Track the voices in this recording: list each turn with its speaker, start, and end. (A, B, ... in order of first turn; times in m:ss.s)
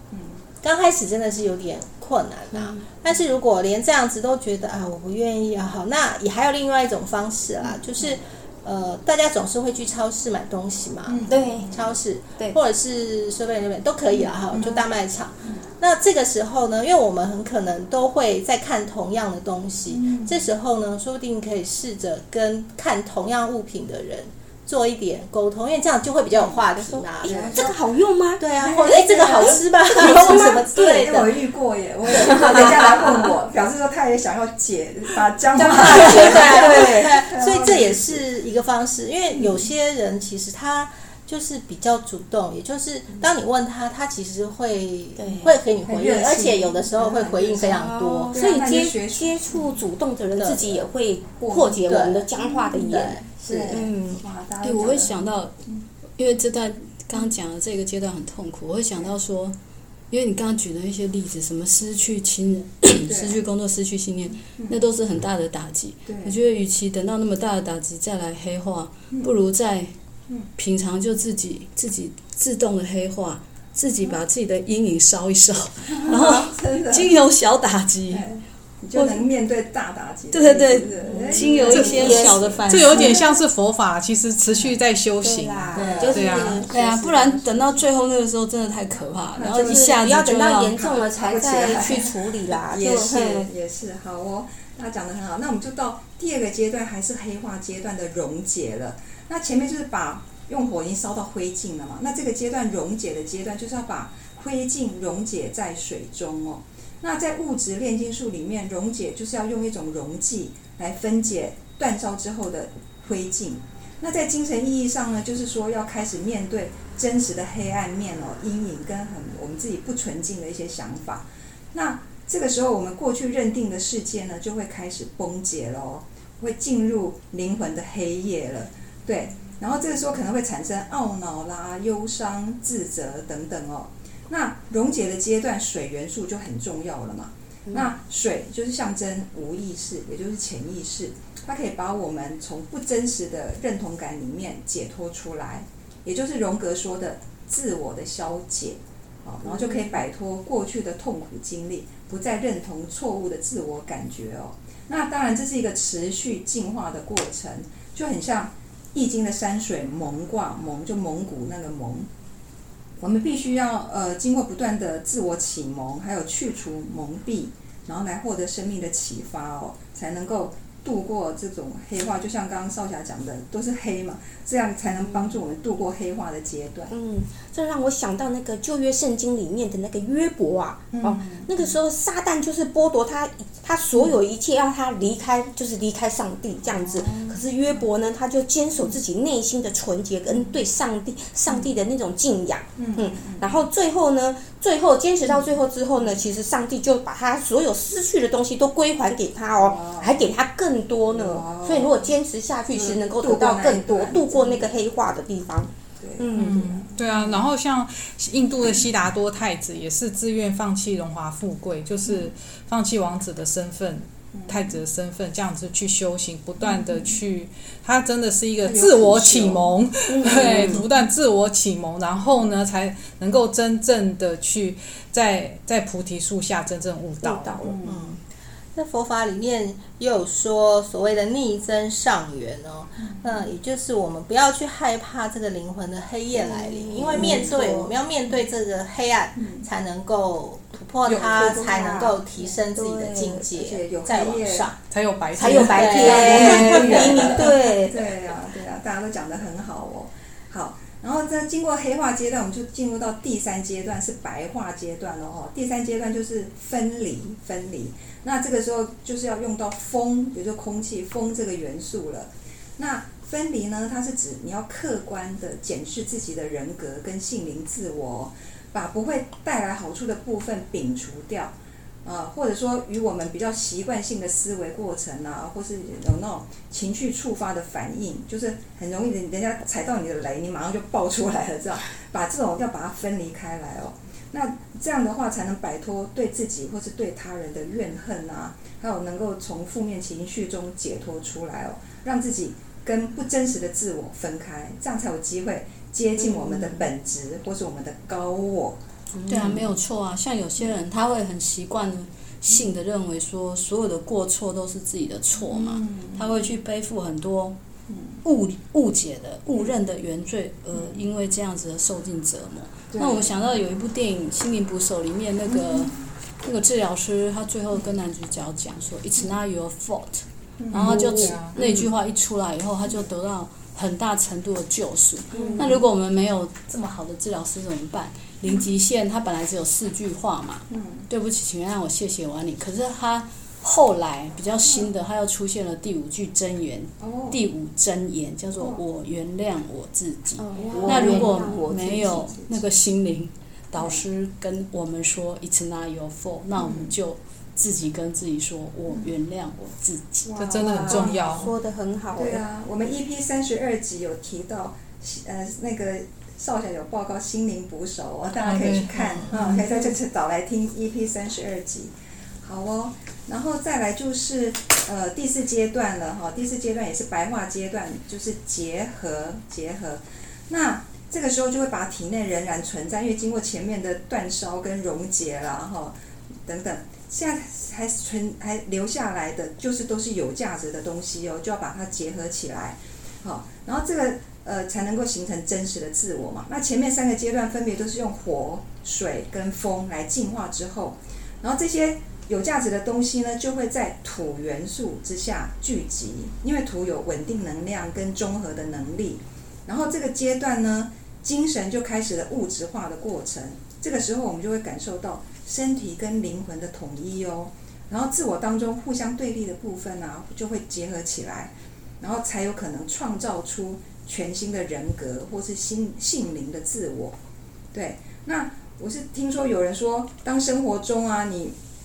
0:00.6-0:27.7 A
0:02.5-0:02.8 B
0:11.1-0:11.8 C
0:11.3-0:11.7 B
0:14.5-0:14.8 C
0:19.9-0:20.5 C
0:26.7-0:28.4 B
0:27.2-0:27.7 C
0:28.4-0:31.4 A
0:28.6-0:38.2 C
0:29.1-0:30.6 B
0:35.6-0:48.4 A
0:35.7-0:37.2 B
0:45.2-0:45.6 B
0:45.8-0:49.5 C
0:47.6-0:54.2 B
0:50.4-0:50.8 A
0:51.4-0:51.8 C
0:51.8-0:53.9 A
0:53.4-0:55.2 C
0:54.6-0:55.6 D
0:56.2-0:59.6 D
1:00.1-1:09.9 D
1:03.1-1:03.4 C
1:06.0-1:06.4 C
1:10.6-1:18.3 D
1:16.0-1:17.1 C
1:18.1-1:23.0 C
1:18.9-1:19.2 D
1:20.3-1:23.2 D
1:21.3-1:23.2 B
1:22.7-1:26.6 E
1:25.2-1:26.7 B
1:25.7-1:27.9 C
1:25.8-1:26.1 D
1:25.8-1:26.1 A
1:26.7-1:30.9 D
1:29.3-1:29.9 C
1:29.6-1:33.5 B
1:30.8-2:42.1 C
2:29.4-2:30.0 B
2:43.0-2:56.9 C
2:55.0-2:55.4 B
2:56.9-3:26.6 B
3:00.9-3:01.6 C
3:06.6-3:07.8 C
3:10.3-3:10.6 C
3:12.8-3:13.7 C
3:19.6-3:20.2 C
3:21.1-3:22.1 C
3:22.7-3:24.8 C
3:26.0-3:27.4 C
3:26.4-3:47.7 E
3:34.3-3:34.8 C
3:36.6-3:37.1 C
3:38.6-3:39.7 C
3:40.1-3:40.8 B
3:40.2-3:40.8 C
3:47.2-3:47.8 B
3:47.6-3:48.1 C
3:47.8-3:48.2 A
3:48.7-4:04.8 A
3:56.4-3:57.9 B
3:57.0-3:57.6 C
3:59.4-3:59.6 C
4:01.1-4:02.2 B
4:01.1-4:01.8 C
4:02.7-4:03.5 B
4:03.5-4:04.7 C
4:04.9-4:07.3 E
4:05.4-4:08.0 B
4:05.4-4:07.4 A
4:05.5-4:31.5 C
4:32.0-4:58.8 C
4:56.3-4:56.8 D
4:59.2-5:07.6 D
4:59.3-4:59.7 C
5:05.5-5:06.4 C
5:07.9-5:08.2 C
5:08.2-5:50.3 D
5:10.7-5:11.0 C
5:12.9-5:13.4 C
5:15.5-5:15.8 C
5:20.6-5:21.4 C
5:20.8-5:21.6 E
5:21.5-5:21.8 B
5:25.3-5:25.8 B
5:25.3-5:25.8 C
5:30.7-5:31.1 C
5:34.6-5:34.9 C
5:37.0-5:37.4 C
5:40.4-5:42.2 B
5:40.6-5:42.6 C
5:43.8-5:44.0 C
5:46.6-5:46.9 C
5:50.2-5:51.5 C
5:50.4-5:51.5 E
5:50.6-5:52.4 B
5:52.1-6:01.9 C
5:58.4-5:59.6 E
6:02.4-6:57.2 C
6:57.7-7:01.6 C